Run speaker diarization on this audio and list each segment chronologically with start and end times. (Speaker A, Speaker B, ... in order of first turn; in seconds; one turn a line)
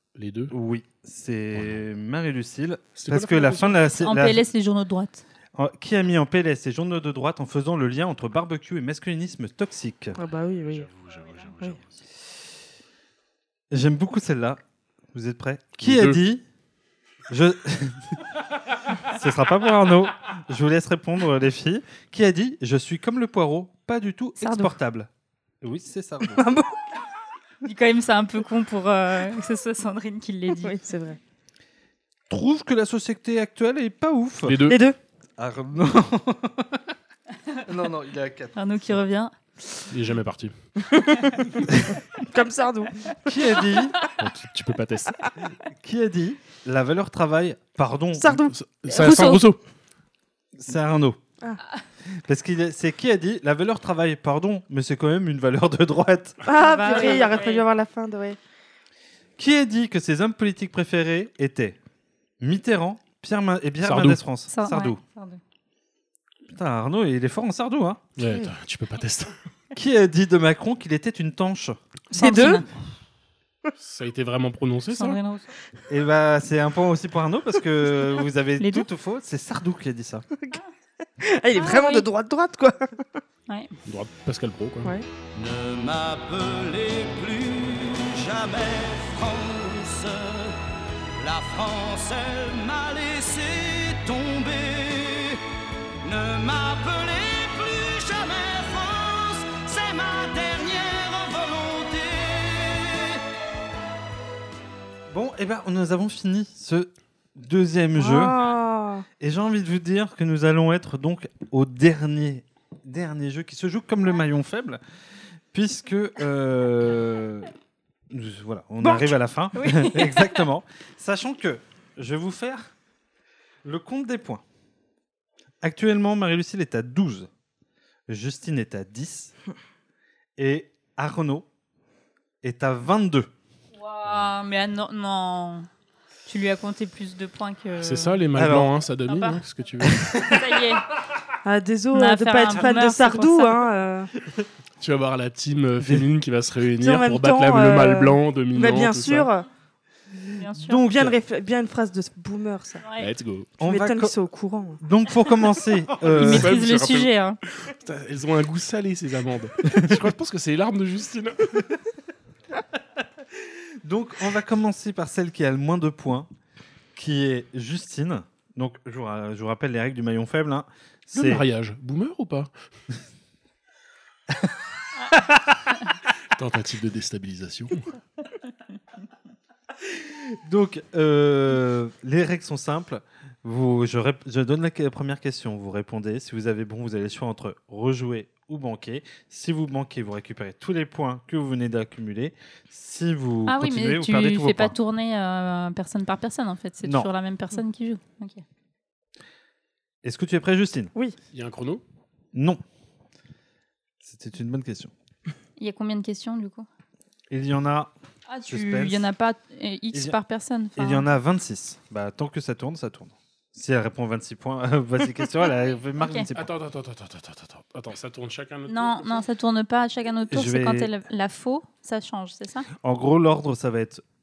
Speaker A: 0.1-0.5
Speaker B: 0.5-4.5
Speaker A: 1.5-1.8
Speaker A: 3.0-3.8
Speaker C: 3.9-5.2
Speaker B: 5.5-10.1
Speaker D: 10.2-10.9
Speaker A: 10.7-12.0
Speaker B: 13.7-14.6
Speaker B: 15.1-16.4
Speaker A: 15.8-16.2
Speaker B: 17.3-18.2
Speaker B: 19.0-25.1
Speaker C: 24.4-24.7
Speaker B: 25.6-26.4
Speaker D: 26.3-26.8
Speaker C: 27.6-30.7
Speaker D: 30.6-31.2
Speaker B: 32.3-34.6
Speaker A: 34.4-34.8
Speaker D: 34.6-35.0
Speaker B: 35.4-36.9
Speaker B: 37.6-39.0
Speaker C: 38.5-39.3
Speaker A: 39.9-40.5
Speaker D: 40.9-41.5
Speaker D: 42.2-43.5
Speaker B: 43.2-44.0
Speaker A: 44.2-45.3
Speaker B: 45.8-48.4
Speaker D: 48.1-48.5
Speaker A: 48.5-49.6
Speaker C: 48.9-49.4
Speaker B: 50.5-51.2
Speaker B: 52.1-56.4
Speaker D: 56.4-58.4
Speaker C: 56.5-57.6
Speaker B: 59.4-61.8
Speaker B: 62.4-65.0
Speaker A: 63.8-64.2
Speaker C: 64.5-65.4
Speaker B: 66.5-68.0
Speaker A: 68.2-69.3
Speaker B: 69.7-71.8
Speaker D: 72.1-72.6
Speaker C: 72.1-72.7
Speaker A: 73.8-75.2
Speaker C: 74.9-75.5
Speaker B: 75.9-80.2
Speaker C: 78.6-78.9
Speaker D: 81.2-83.2
Speaker C: 81.5-82.0
Speaker A: 83.8-84.9
Speaker E: 85.4-90.5
Speaker E: 91.2-95.4
Speaker E: 96.0-103.2
Speaker B: 105.1-108.4
Speaker D: 108.0-109.0
Speaker B: 109.2-114.8
Speaker B: 115.5-117.5
Speaker B: 118.1-122.7
Speaker D: 118.8-120.0
Speaker C: 119.6-119.9
Speaker B: 123.6-124.4
Speaker B: 125.6-127.3
Speaker B: 128.1-129.3
Speaker B: 130.4-131.4
Speaker B: 132.4-133.3
Speaker C: 133.8-135.7
Speaker C: 136.3-138.2
Speaker A: 137.8-140.1
Speaker B: 138.3-138.7
Speaker C: 139.1-139.4
Speaker B: 139.8-140.4
Speaker C: 140.1-140.9
Speaker D: 141.4-144.1
Speaker C: 141.9-143.7
Speaker A: 144.8-149.3
Speaker D: 146.8-149.5
Speaker C: 150.3-150.8
Speaker B: 150.6-151.2
Speaker D: 150.8-152.8
Speaker C: 152.8-153.1
Speaker A: 153.0-153.5
Speaker B: 153.6-154.1
Speaker D: 153.6-154.8
Speaker B: 154.8-156.6
Speaker A: 156.0-161.8
Speaker C: 156.1-157.4
Speaker B: 163.3-166.3
Speaker B: 166.9-171.4
Speaker A: 171.1-172.5
Speaker B: 175.1-175.4
Speaker A: 176.3-178.0
Speaker B: 179.8-194.7
Speaker C: 193.5-198.4
Speaker B: 196.8-197.1
Speaker B: 200.0-200.9
Speaker A: 201.3-201.8
Speaker B: 202.3-202.6
Speaker B: 204.0-204.9
Speaker C: 205.6-206.7
Speaker B: 207.3-207.9
Speaker C: 208.3-211.1
Speaker B: 208.4-209.1
Speaker B: 209.9-210.2
Speaker B: 210.8-216.5
Speaker C: 216.0-216.3
Speaker A: 216.3-219.2
Speaker C: 218.7-222.7
Speaker B: 220.3-220.9
Speaker B: 222.8-224.0